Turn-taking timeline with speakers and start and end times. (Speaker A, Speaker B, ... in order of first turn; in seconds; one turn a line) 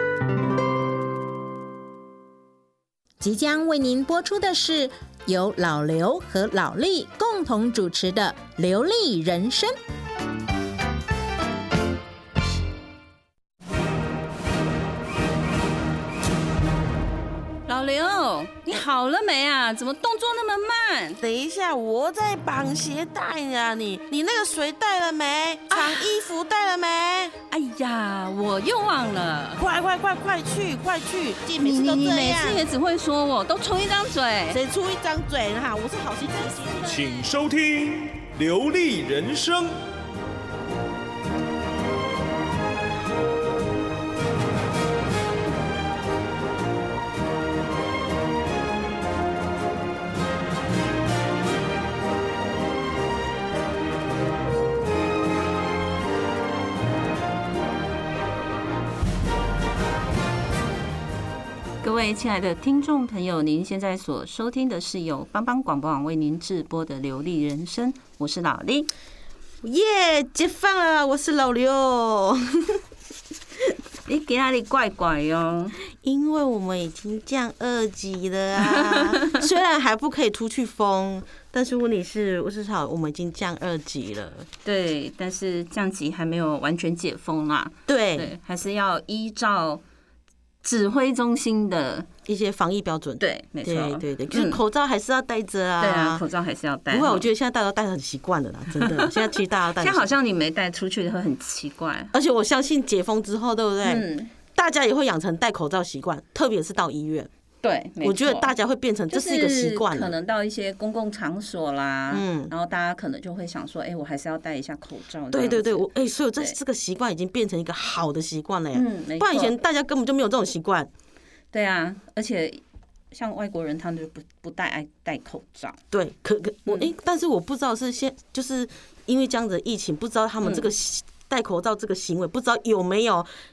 Speaker A: 3.2-9.7
Speaker B: 17.7-21.2
Speaker C: 21.2-27.3
Speaker B: 25.7-26.1
Speaker B: 27.5-29.6
Speaker C: 29.6-32.6
Speaker B: 31.6-34.6
Speaker C: 34.5-36.9
Speaker D: 36.8-39.7
Speaker B: 61.8-68.9
Speaker C: 69.6-72.8
Speaker B: 74.1-75.7
Speaker C: 75.9-84.5
Speaker B: 78.6-79.4
Speaker B: 84.6-89.8
Speaker C: 87.9-88.3
Speaker B: 90.6-92.1
Speaker C: 92.2-96.2
Speaker B: 93.2-94.6
Speaker B: 95.8-97.3
Speaker C: 96.9-100.1
Speaker B: 98.8-102.1
Speaker C: 102.1-107.3
Speaker B: 103.8-104.3
Speaker B: 107.6-108.5
Speaker C: 108.0-110.1
Speaker B: 109.1-116.6
Speaker C: 112.1-112.5
Speaker C: 115.3-120.9
Speaker B: 118.7-119.5
Speaker B: 121.5-122.6
Speaker B: 123.1-125.8
Speaker C: 125.9-133.3
Speaker B: 130.4-130.7